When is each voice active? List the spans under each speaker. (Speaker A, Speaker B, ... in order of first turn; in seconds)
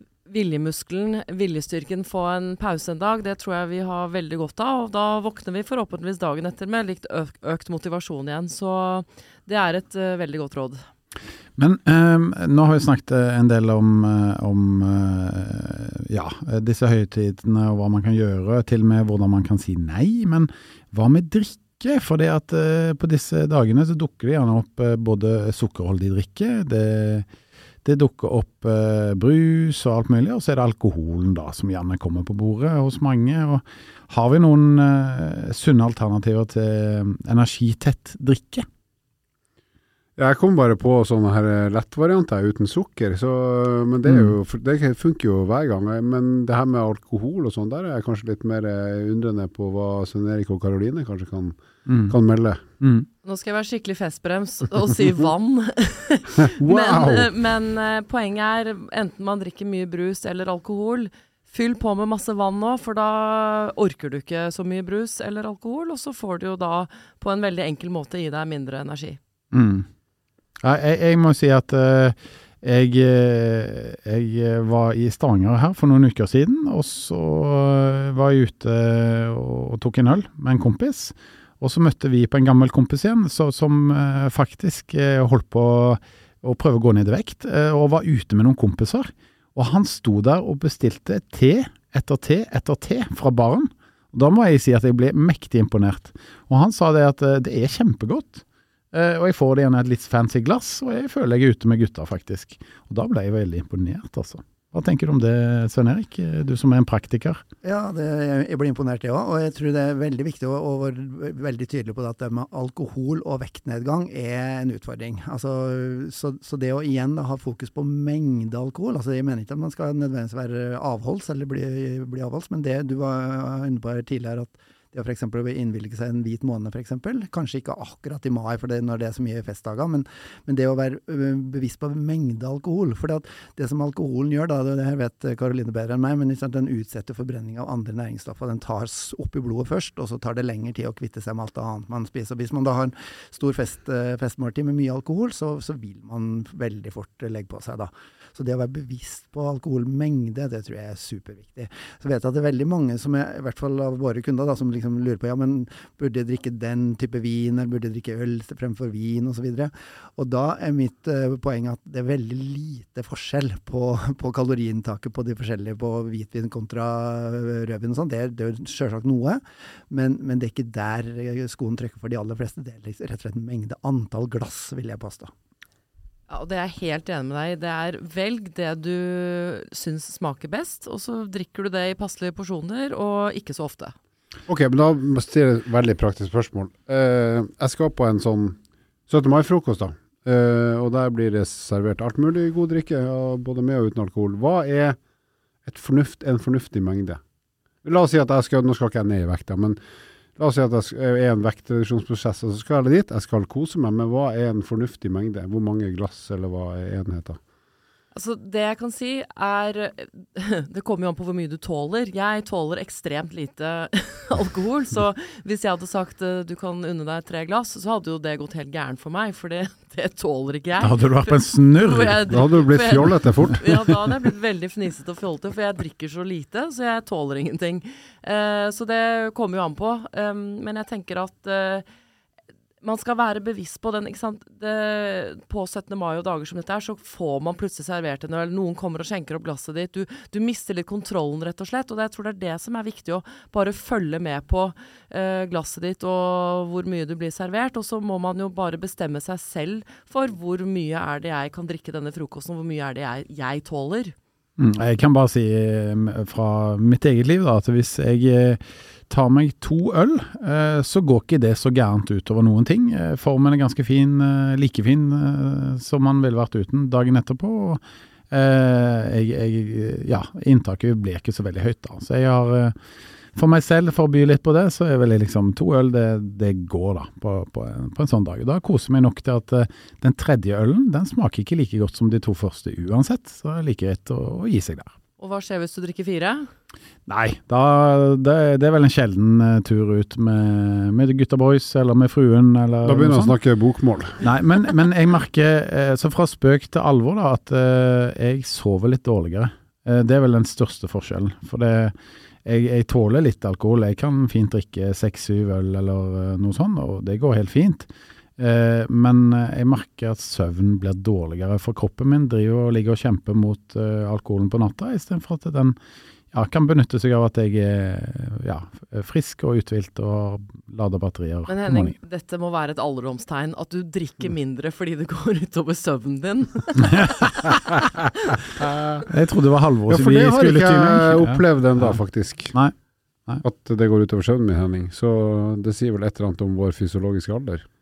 Speaker A: 0.2-10.8, 53.2-69.2, 176.3-183.9, 208.1-231.8, 232.8-254.1, 285.2-286.5, 321.5-327.5
Speaker B: 11.6-27.3, 27.8-38.6, 44.0-44.3, 51.9-52.1, 52.8-53.1, 69.5-69.9, 70.6-107.4, 220.8-222.2, 223.4-223.7, 254.6-272.7, 273.3-284.9, 287.1-293.4, 294.2-301.9, 302.4-315.8, 316.3-321.9, 326.8-327.7, 329.1-332.0
Speaker C: 40.2-52.6, 56.4-57.3, 184.5-195.0, 195.7-197.2, 197.8-199.8, 200.4-207.4, 222.3-223.7, 292.8-294.2, 328.6-329.0, 329.9-332.5, 333.4-337.6
Speaker D: 107.6-175.3